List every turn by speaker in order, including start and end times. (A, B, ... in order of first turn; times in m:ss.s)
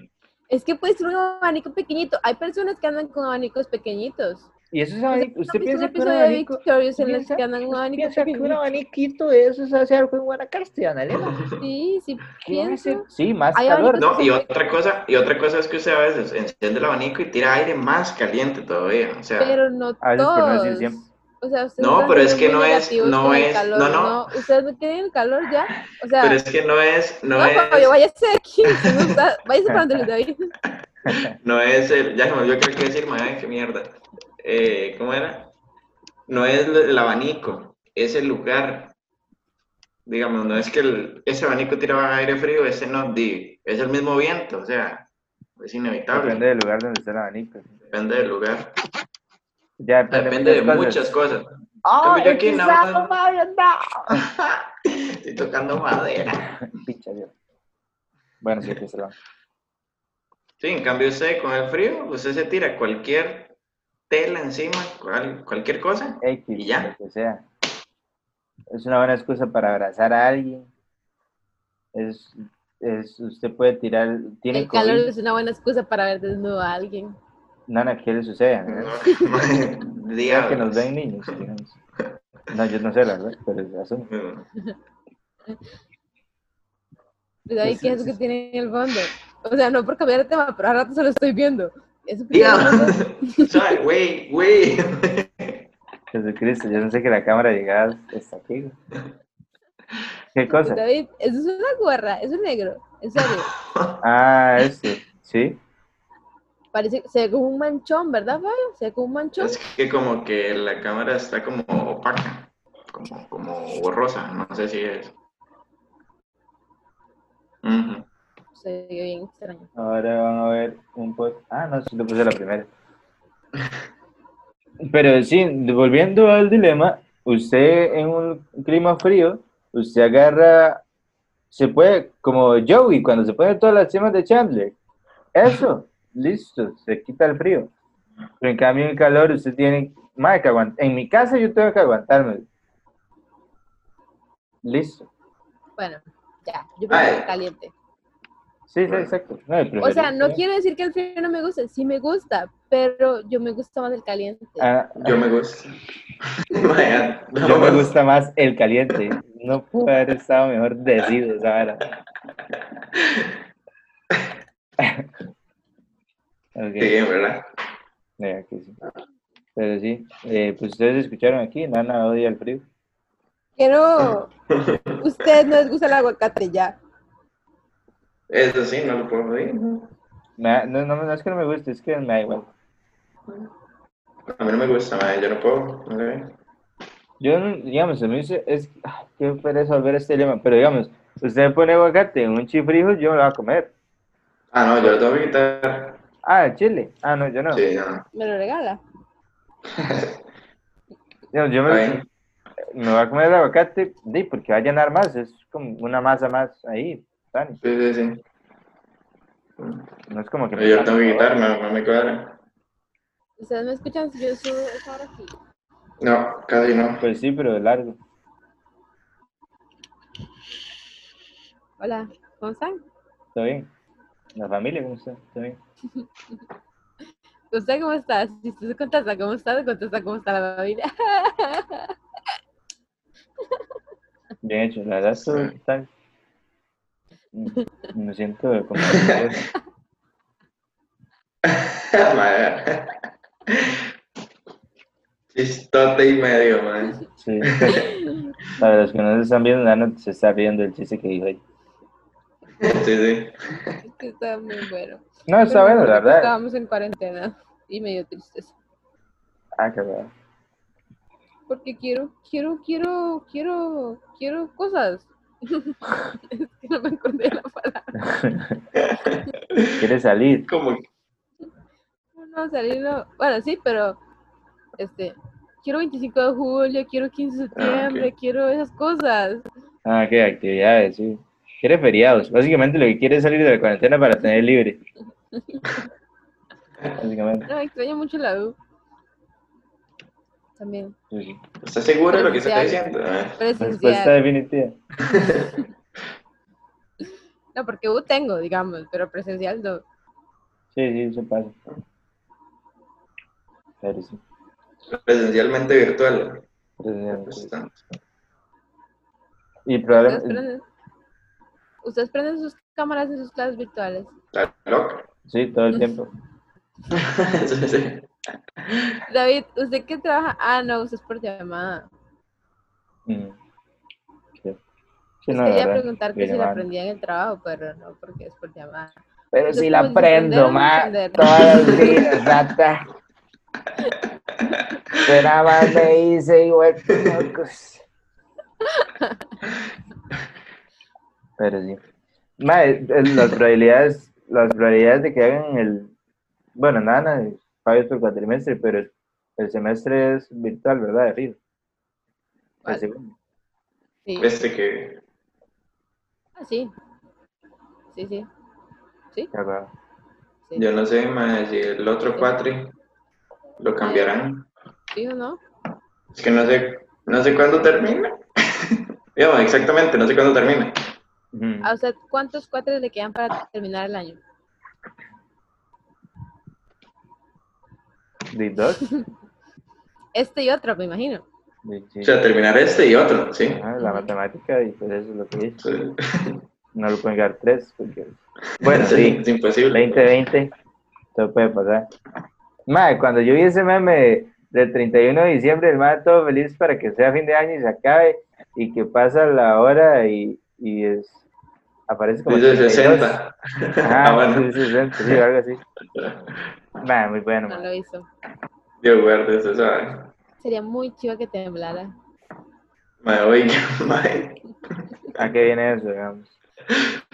0:00.5-0:04.5 A
0:04.7-0:11.4 B
0:05.1-0:08.6 A
0:11.1-0:11.6 C
0:11.6-0:14.6 A
0:12.4-0:14.0 B
0:14.0-0:19.6 C
0:19.4-0:26.4 A
0:20.0-0:21.1 B
0:21.8-0:24.3 C
0:26.2-0:27.9 C
0:27.3-0:30.5 A
0:28.7-0:29.1 C
0:31.0-0:35.5 C
0:31.1-0:31.3 B
0:36.3-0:38.9 C
0:40.0-0:45.0 C
0:45.6-0:46.4 C
0:46.1-0:47.8 B
0:47.9-0:48.7 C
0:49.8-0:51.2 B
0:50.1-0:51.5 C
0:51.8-0:54.2 B
0:52.0-0:53.1 C
0:54.1-0:56.6 C
0:56.7-0:57.3 B
0:58.4-0:59.1 B
1:00.6-1:03.5 C
1:04.1-1:06.9 C
1:06.2-1:07.4 B
1:08.7-1:10.7 B
1:11.9-1:15.1 B
1:14.5-1:17.2 A
1:17.7-1:18.9 B
1:18.7-1:21.4 C
1:19.0-1:19.5 A
1:20.3-1:21.8 B
1:22.5-1:24.1 B
1:24.1-1:24.5 C
1:27.4-1:33.7 A
1:27.6-1:28.1 B
1:32.3-1:35.6 C
1:36.1-1:38.8 B
1:40.3-1:40.8 B
1:40.5-1:43.5 A
1:43.2-1:44.0 C
1:44.0-1:45.6 B
1:46.7-1:49.6 A
1:49.4-1:55.2 C
1:57.6-1:58.0 C
1:58.5-1:59.7 A
1:59.8-2:02.7 B
2:04.8-2:10.8 B
2:11.5-2:14.7 B
2:15.3-2:17.7 B
2:18.4-2:22.4 B
2:24.6-2:25.1 B
2:25.8-2:27.7 A
2:26.9-2:27.3 C
2:28.7-2:30.4 B
2:28.8-2:29.1 C
2:29.8-2:34.7 A
2:34.6-2:35.2 B
2:35.0-2:35.7 C
2:36.4-2:37.9 C
2:37.4-2:41.8 B
2:42.9-2:43.3 C
2:44.8-2:45.1 B
2:46.6-2:46.9 B
2:46.8-2:47.4 C
2:48.2-2:48.8 B
2:49.6-2:52.6 B
2:53.6-2:54.3 A
2:54.5-2:55.0 C
2:55.0-2:56.8 A
2:58.3-2:59.9 C
3:00.4-3:02.5 B
3:04.3-3:06.3 C
3:07.2-3:13.7 B
3:14.5-3:16.0 C
3:16.2-3:17.6 B
3:17.5-3:18.0 C
3:18.1-3:18.8 A
3:19.7-3:20.2 C
3:21.3-3:22.0 B
3:21.6-3:22.0 C
3:22.7-3:27.6 B
3:27.6-3:28.2 C
3:29.6-3:29.9 C
3:30.1-3:31.3 B
3:30.6-3:32.4 C
3:33.4-3:35.3 A
3:36.0-3:37.0 C
3:37.0-3:38.0 B
3:41.8-3:42.8 A
3:43.3-3:43.7 B
3:44.4-3:45.6 B
3:47.5-3:51.9 A
3:54.4-3:55.9 B
3:55.2-3:55.5 C
3:57.3-3:59.5 B
3:58.8-3:59.4 C
4:01.4-4:02.9 C
4:03.5-4:03.8 C
4:05.3-4:07.8 C
4:07.2-4:07.9 B
4:07.7-4:08.3 A
4:08.6-4:11.4 B
4:12.6-4:13.8 C
4:13.8-4:18.5 A
4:15.3-4:16.3 B
4:19.6-4:20.1 B
4:21.5-4:28.0 A
4:28.0-4:28.6 B
4:28.7-4:29.8 C
4:29.8-4:30.5 B
4:30.5-4:30.8 C
4:32.2-4:34.0 A
4:34.8-4:39.4 A
4:37.6-4:38.1 C
4:39.8-4:44.8 B
4:45.4-4:45.8 A
4:47.0-4:47.5 B
4:47.5-4:48.6 A
4:50.6-4:51.0 A
4:51.1-4:51.4 B
4:51.6-4:53.4 C
4:52.1-4:52.8 A
4:53.4-4:54.2 A
4:53.6-4:54.8 B
4:55.1-4:55.6 C
4:57.5-4:59.8 A
5:00.7-5:01.5 B
5:03.8-5:04.2 B
5:04.9-5:06.4 C
5:06.8-5:07.5 B
5:07.1-5:07.8 C
5:09.6-5:10.4 B
5:09.9-5:10.6 A
5:11.8-5:14.1 A
5:14.3-5:15.1 C
5:15.3-5:16.1 B
5:16.9-5:18.1 C
5:18.6-5:19.0 C
5:18.9-5:21.9 A
5:23.1-5:23.4 B
5:25.2-5:26.6 B
5:25.3-5:29.0 A
5:29.3-5:32.8 B
5:29.5-5:32.0 A
5:31.3-5:31.9 C
5:34.9-5:35.8 C
5:35.0-5:37.8 B
5:38.6-5:39.2 A
5:41.4-5:41.8 B
5:42.4-5:45.9 B
5:46.6-5:51.4 B
5:52.6-5:53.1 B
5:54.2-5:55.0 C
5:56.4-5:56.7 A
5:57.9-5:58.3 A
5:59.3-5:59.7 B
6:00.5-6:02.7 C
6:03.6-6:04.5 C
6:03.8-6:04.1 A
6:04.9-6:05.4 A
6:06.1-6:10.8 C
6:11.3-6:11.7 B
6:11.6-6:14.2 A
6:18.3-6:18.9 B
6:20.2-6:21.2 A
6:21.6-6:22.1 B
6:22.0-6:23.6 C
6:23.5-6:25.6 B
6:23.8-6:24.1 A
6:25.6-6:26.4 C
6:26.7-6:30.5 B
6:28.6-6:30.1 C
6:31.1-6:31.9 B
6:32.7-6:41.2 B
6:41.9-6:43.2 B
6:42.3-6:45.2 C
6:43.8-6:45.6 B
6:46.0-6:46.4 C
6:46.8-6:47.7 B
6:47.5-6:48.1 A
6:48.8-6:50.1 C
6:50.4-6:51.9 A
6:53.0-6:54.4 C
6:55.2-6:56.3 B